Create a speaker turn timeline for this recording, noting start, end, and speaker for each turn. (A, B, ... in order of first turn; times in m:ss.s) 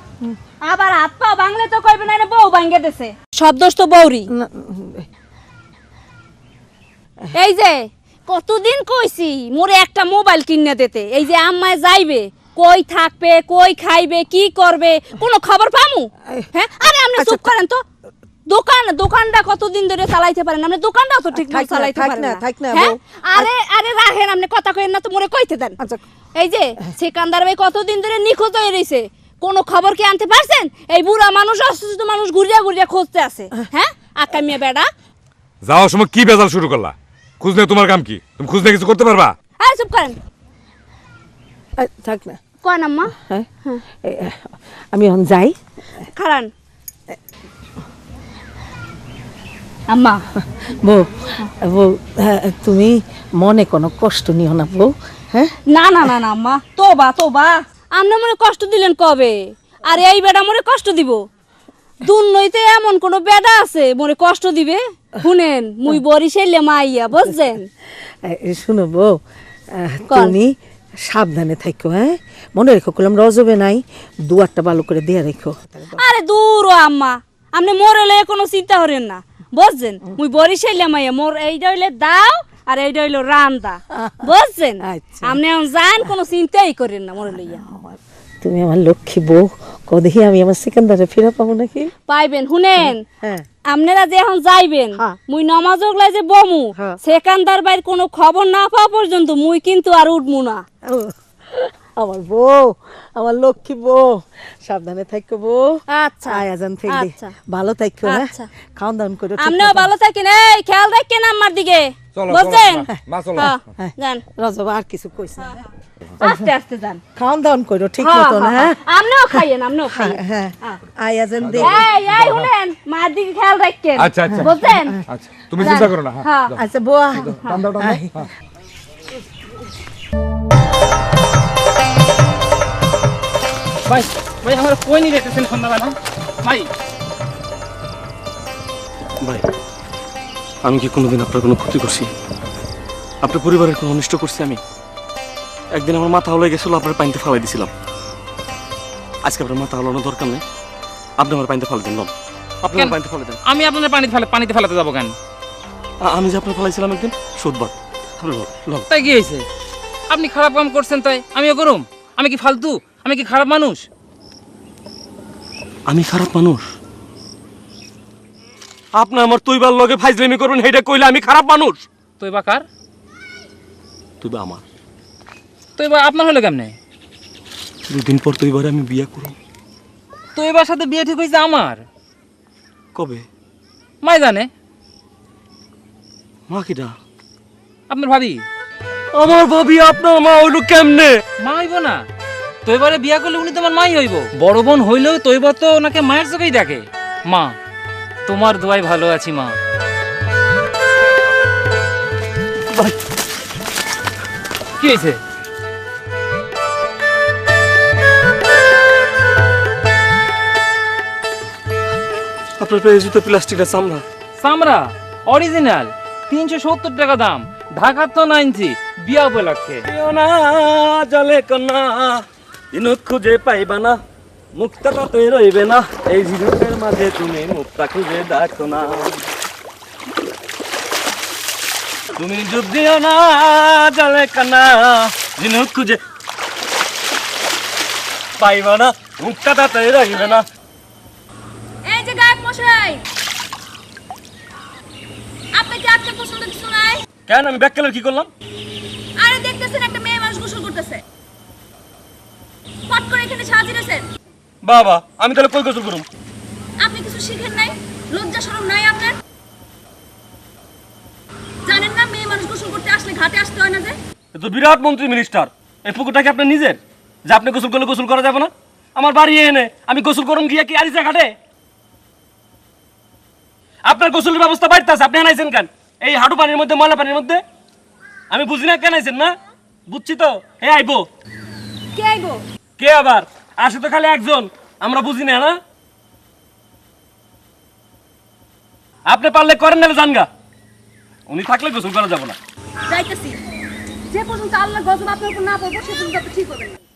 0:00.6-0:04.3 A
0:04.3-0:05.0 B
0:07.3-0:17.8 A
0:17.2-0:17.5 B
0:18.5-0:25.8 A
0:21.3-0:23.5 B
0:26.4-0:34.9 A
0:35.6-0:39.3 C
0:39.6-0:40.2 A
0:41.8-0:42.4 B
0:42.6-0:43.1 A
0:43.2-0:43.5 B
0:44.0-0:45.6 B
0:46.1-0:46.5 A
0:49.9-0:50.2 A
0:50.5-0:55.5 B
0:55.7-1:01.2 A
1:02.0-1:07.7 A
1:08.2-1:09.2 B
1:09.7-1:10.5 B
1:10.1-1:10.4 A
1:11.0-1:16.0 B
1:16.0-1:27.6 A
1:23.9-1:24.3 B
1:24.9-1:25.4 B
1:27.3-1:31.9 B
1:32.1-1:33.0 A
1:32.8-1:33.4 B
1:33.7-1:40.6 A
1:40.8-1:49.9 B
1:45.9-1:47.3 A
1:48.0-1:48.5 A
1:49.4-1:54.2 A
1:52.1-1:53.5 C
1:53.8-1:55.6 B
1:56.2-1:57.0 A
1:56.2-1:56.5 B
1:57.2-1:58.8 B
1:58.0-2:00.8 A
1:59.3-2:01.9 B
2:01.4-2:02.5 C
2:01.6-2:05.0 A
2:04.0-2:04.5 C
2:04.3-2:05.0 B
2:05.1-2:06.6 C
2:05.6-2:06.5 A
2:06.5-2:08.3 B
2:07.2-2:08.3 C
2:07.2-2:07.6 A
2:13.8-2:16.7 D
2:20.6-2:22.1 E
2:23.2-2:24.6 E
2:25.7-2:27.7 E
2:29.2-2:30.4 E
2:31.2-2:32.1 E
2:32.6-2:33.4 E
2:33.5-2:35.1 D
2:36.0-2:38.9 E
2:38.9-2:39.4 D
2:40.1-2:43.8 D
2:45.9-2:46.7 E
2:49.0-2:51.8 E
2:52.2-2:52.6 D
2:54.2-2:54.6 E
2:55.8-2:56.8 D
2:57.9-2:59.3 E
3:00.3-3:01.8 D
3:02.9-3:03.2 E
3:04.0-3:04.5 D
3:06.5-3:07.0 E
3:07.9-3:08.4 D
3:09.1-3:11.2 E
3:11.4-3:12.0 D
3:12.6-3:17.6 D
3:18.2-3:19.6 D
3:24.8-3:25.2 D
3:32.6-3:34.0 E
3:34.4-3:39.8 D
3:39.9-3:44.0 E
3:44.5-3:49.2 E
3:52.2-3:56.0 E
3:58.4-4:00.4 E
4:01.8-4:03.0 A
4:05.5-4:07.0 A
4:07.3-4:08.3 E
4:09.2-4:11.0 A
4:12.9-4:14.0 A
4:14.6-4:16.0 E
4:16.8-4:19.2 A
4:21.6-4:24.0 A
4:24.3-4:31.3 E
4:33.8-4:37.4 E
4:38.3-4:39.3 E
4:39.9-4:41.0 E
4:41.9-4:42.4 A
4:42.8-4:45.6 E
4:49.1-4:50.3 E
4:51.3-4:52.4 E
4:52.9-4:53.4 A
4:54.1-4:56.8 A